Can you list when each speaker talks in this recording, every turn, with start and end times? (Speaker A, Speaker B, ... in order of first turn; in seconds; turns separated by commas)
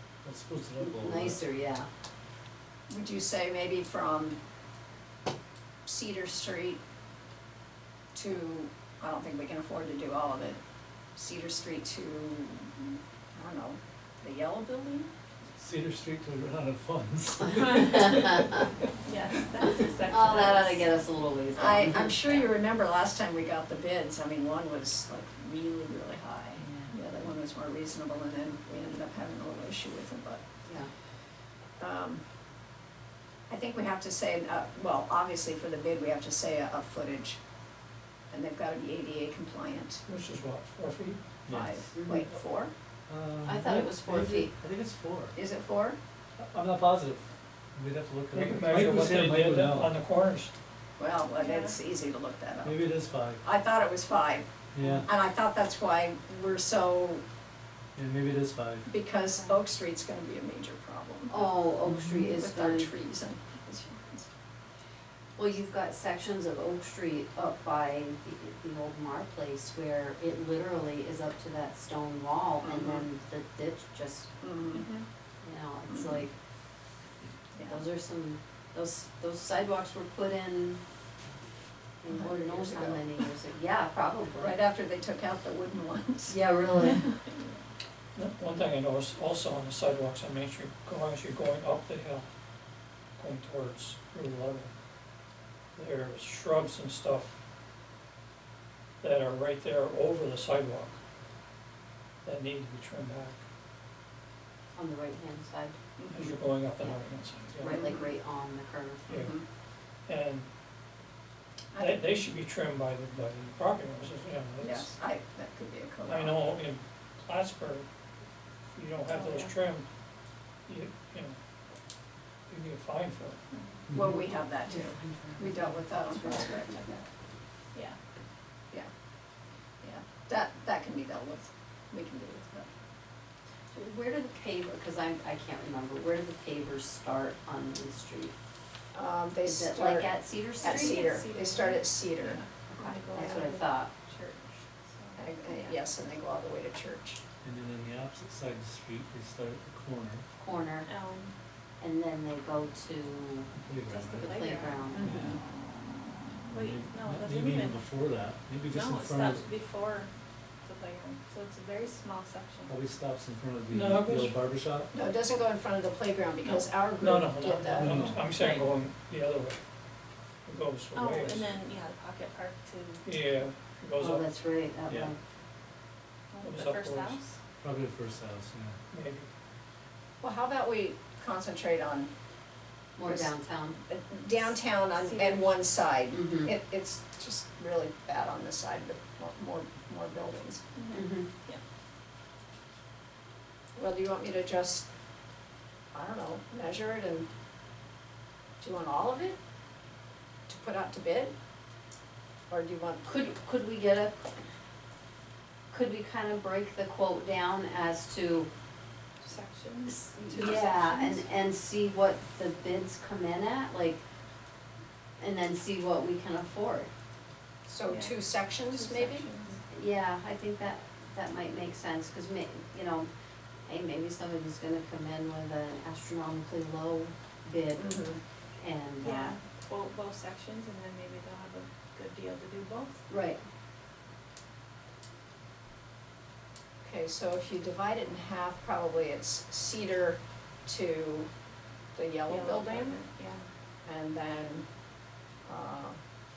Speaker A: 0.2-1.4, Speaker B: 0.8-1.9, Speaker C: 2.9-4.4, Speaker C: 5.8-6.8, Speaker C: 8.1-10.6, Speaker C: 11.2-15.1, Speaker A: 15.6-18.3, Speaker B: 18.0-18.5, Speaker D: 19.1-20.9, Speaker B: 20.0-22.5, Speaker C: 21.6-30.5, Speaker B: 26.6-26.9, Speaker B: 30.6-30.9, Speaker C: 31.8-32.2, Speaker C: 33.5-37.4, Speaker C: 38.3-40.0, Speaker E: 40.1-41.2, Speaker A: 41.5-41.8, Speaker C: 41.5-42.7, Speaker B: 41.9-42.2, Speaker A: 43.1-45.4, Speaker B: 43.4-44.5, Speaker C: 45.3-46.0, Speaker A: 46.4-49.9, Speaker E: 48.3-50.5, Speaker C: 51.0-52.8, Speaker D: 51.4-51.8, Speaker A: 52.6-53.4, Speaker C: 53.4-54.5, Speaker A: 54.7-55.1, Speaker B: 54.8-55.0, Speaker C: 55.0-57.2, Speaker A: 58.0-58.9, Speaker C: 58.9-61.5, Speaker D: 59.3-59.6, Speaker B: 61.3-62.9, Speaker C: 62.1-64.3, Speaker B: 65.4-74.3, Speaker C: 72.6-73.1, Speaker C: 74.4-74.9, Speaker D: 74.7-75.0, Speaker B: 75.4-76.3, Speaker C: 75.9-76.2, Speaker C: 77.6-77.8, Speaker B: 77.7-80.8, Speaker B: 82.0-84.6, Speaker C: 82.1-83.3, Speaker C: 84.3-86.4, Speaker B: 86.3-87.1, Speaker E: 88.2-92.3, Speaker E: 93.2-94.7, Speaker E: 95.8-97.3, Speaker E: 99.0-101.0, Speaker E: 102.2-103.4, Speaker B: 104.8-105.8, Speaker C: 106.0-106.4, Speaker E: 106.1-107.8, Speaker B: 107.6-109.1, Speaker C: 107.6-108.1, Speaker C: 109.1-109.4, Speaker E: 110.1-110.5, Speaker C: 111.7-112.0, Speaker E: 111.8-114.9, Speaker C: 114.6-116.4, Speaker E: 116.0-117.9, Speaker E: 118.8-119.8, Speaker D: 119.1-119.5, Speaker E: 120.7-121.4, Speaker E: 122.5-123.4, Speaker C: 123.9-126.9, Speaker B: 124.1-127.0, Speaker C: 129.8-132.7, Speaker B: 133.7-138.3, Speaker C: 138.9-143.5, Speaker B: 139.4-141.1, Speaker D: 140.6-145.8, Speaker B: 143.1-143.9, Speaker C: 145.2-147.2, Speaker A: 147.4-150.2, Speaker B: 150.4-150.9, Speaker D: 150.8-151.3, Speaker B: 151.8-153.5, Speaker A: 153.6-154.4, Speaker D: 153.9-154.8, Speaker B: 154.0-155.0, Speaker C: 154.9-155.4, Speaker A: 155.0-155.4, Speaker D: 156.5-157.8, Speaker A: 156.5-159.5, Speaker D: 158.7-160.1, Speaker D: 160.6-162.7, Speaker A: 162.7-164.9, Speaker E: 163.7-164.4, Speaker C: 164.9-168.1, Speaker E: 167.0-169.6, Speaker A: 167.8-168.2, Speaker D: 168.4-168.7, Speaker E: 170.5-171.5, Speaker D: 170.9-173.1, Speaker E: 173.1-174.2, Speaker B: 174.0-175.2, Speaker D: 176.3-177.2, Speaker E: 176.4-177.2, Speaker A: 177.6-178.8, Speaker E: 178.9-179.3, Speaker C: 180.2-182.1, Speaker B: 183.0-183.8, Speaker C: 183.1-190.6, Speaker D: 184.9-185.5, Speaker B: 186.1-186.5, Speaker D: 190.8-191.6, Speaker B: 190.9-191.3, Speaker C: 193.8-194.9, Speaker C: 195.9-197.3, Speaker C: 198.6-199.4, Speaker C: 200.5-201.3, Speaker C: 202.5-203.1, Speaker B: 203.1-204.2, Speaker B: 205.7-208.5, Speaker D: 209.2-211.2, Speaker C: 210.2-210.8, Speaker B: 210.3-214.0, Speaker B: 215.2-216.9, Speaker C: 217.7-219.3, Speaker D: 217.9-219.6, Speaker B: 219.7-223.1, Speaker B: 223.7-228.0, Speaker C: 227.8-228.2, Speaker B: 228.6-229.4, Speaker D: 229.0-233.0, Speaker B: 233.1-233.4, Speaker C: 236.8-241.3, Speaker C: 241.9-243.0, Speaker D: 242.3-243.5, Speaker C: 243.8-244.7, Speaker C: 245.4-246.0